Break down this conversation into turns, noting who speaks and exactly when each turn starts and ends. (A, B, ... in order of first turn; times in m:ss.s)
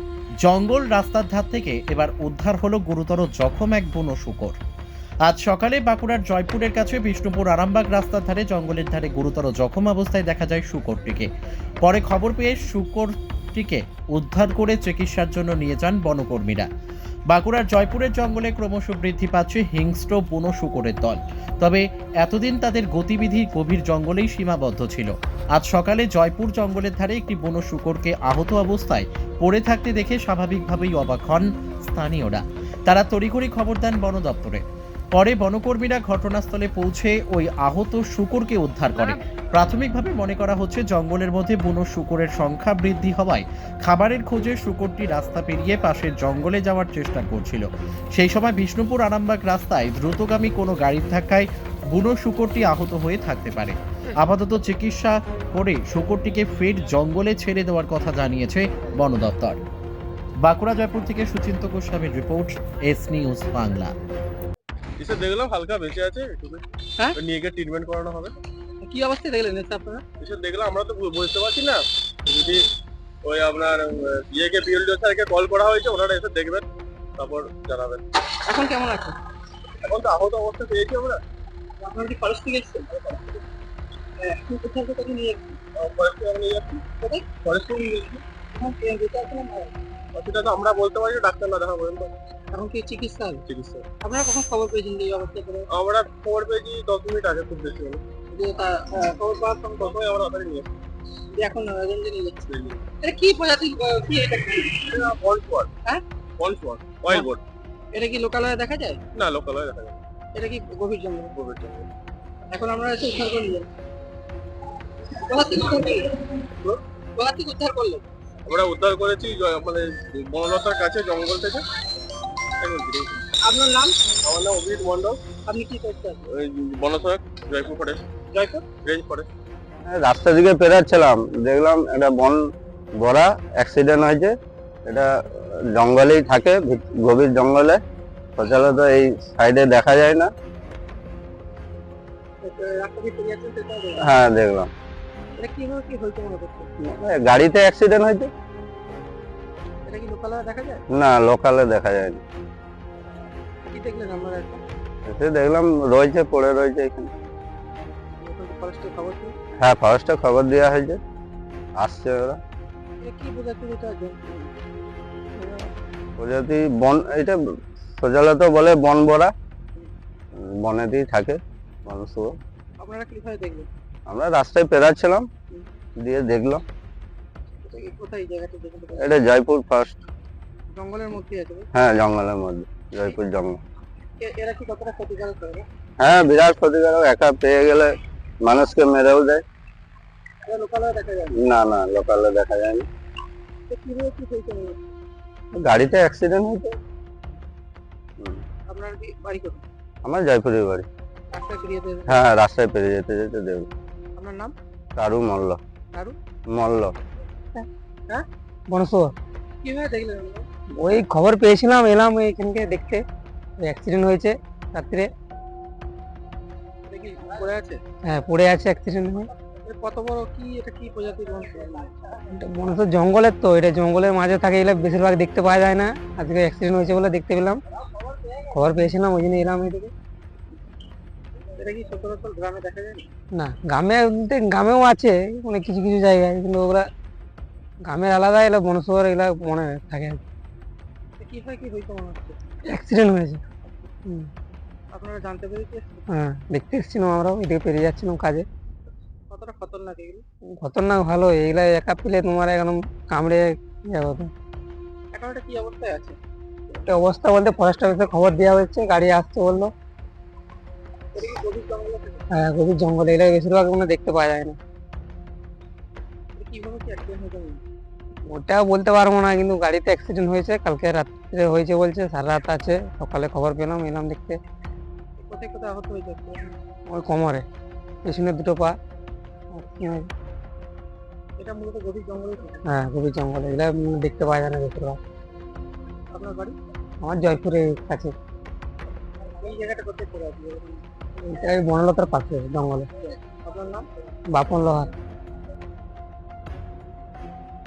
0:00.4-0:04.6 A
0:05.3-0:11.3 A
0:11.8-0:16.7 A
0:17.3-0:34.6 A
0:35.1-0:59.6 A
1:00.4-1:03.9 A
1:05.0-1:06.6 B
1:07.2-1:08.4 B
1:08.8-1:10.0 C
1:10.2-1:12.7 B
1:13.2-1:16.6 B
1:17.2-1:18.0 B
1:18.4-1:19.2 C
1:19.8-1:21.2 B
1:21.8-1:23.4 C
1:24.2-1:25.6 C
1:25.8-1:26.9 B
1:26.9-1:27.4 C
1:27.4-1:28.2 B
1:28.6-1:29.7 C
1:30.1-1:32.1 B
1:32.5-1:33.4 C
1:33.5-1:33.9 B
1:34.0-1:35.7 C
1:35.7-1:38.0 B
1:38.3-1:40.0 C
1:39.8-1:40.7 B
1:41.4-1:42.5 C
1:42.5-1:42.8 B
1:43.0-1:44.8 C
1:44.9-1:45.7 B
1:46.4-1:47.4 B
1:47.9-1:49.1 C
1:49.1-1:50.0 B
1:50.4-1:51.3 C
1:51.3-1:51.9 B
1:52.5-1:53.7 C
1:55.2-1:56.4 C
1:57.2-1:58.0 C
1:58.5-2:01.6 B
2:02.6-2:03.2 B
2:03.4-2:04.0 C
2:04.2-2:05.3 B
2:05.3-2:06.2 C
2:06.3-2:09.3 B
2:09.9-2:12.4 D
2:13.0-2:14.3 D
2:15.7-2:17.8 D
2:18.4-2:20.3 D
2:22.4-2:24.0 C
2:24.0-2:24.7 D
2:25.4-2:26.7 C
2:26.8-2:28.3 D
2:29.9-2:30.8 C
2:30.9-2:32.2 D
2:33.7-2:34.6 C
2:35.1-2:37.1 D
2:38.2-2:39.4 C
2:39.6-2:41.0 D
2:41.8-2:42.4 D
2:43.0-2:44.5 C
2:45.4-2:45.7 C
2:46.2-2:47.4 D
2:48.0-2:49.3 D
2:50.4-2:52.3 D
2:52.8-2:53.7 C
2:54.1-2:55.3 D
2:56.0-2:56.6 D
2:57.6-2:59.2 C
2:59.0-3:00.0 D
3:00.7-3:01.7 C
3:01.7-3:03.6 D
3:04.2-3:05.7 C
3:06.0-3:07.9 D
3:08.4-3:09.4 D
3:10.4-3:11.4 C
3:11.4-3:12.9 D
3:13.7-3:14.8 C
3:15.6-3:16.8 D
3:18.7-3:19.7 C
3:20.0-3:20.9 D
3:21.3-3:22.2 C
3:22.1-3:23.7 D
3:24.2-3:24.5 C
3:25.0-3:25.6 D
3:26.5-3:26.9 D
3:28.7-3:29.1 E
3:29.6-3:30.4 C
3:30.8-3:33.0 E
3:33.6-3:35.1 E
3:36.9-3:37.8 C
3:38.0-3:39.3 E
3:39.7-3:41.9 C
3:42.4-3:47.6 E
3:48.5-3:49.9 E
3:51.6-3:53.1 C
3:53.4-3:56.9 E
3:57.9-4:00.2 E
4:01.2-4:02.4 C
4:02.7-4:03.4 E
4:04.9-4:06.0 C
4:06.2-4:08.4 E
4:09.3-4:10.2 C
4:10.6-4:14.3 E
4:15.1-4:16.2 C
4:16.8-4:19.7 E
4:21.2-4:22.2 C
4:22.3-4:24.6 E
4:26.4-4:27.6 C
4:28.3-4:34.4 E
4:35.2-4:36.5 C
4:36.9-4:37.4 E
4:38.0-4:38.7 E
4:39.6-4:40.1 E
4:41.4-4:42.6 C
4:42.7-4:45.0 E
4:46.1-4:46.6 C
4:47.0-4:48.1 E
4:49.4-4:50.8 C
4:51.2-4:52.9 E
4:53.1-4:53.9 C
4:54.3-4:54.9 E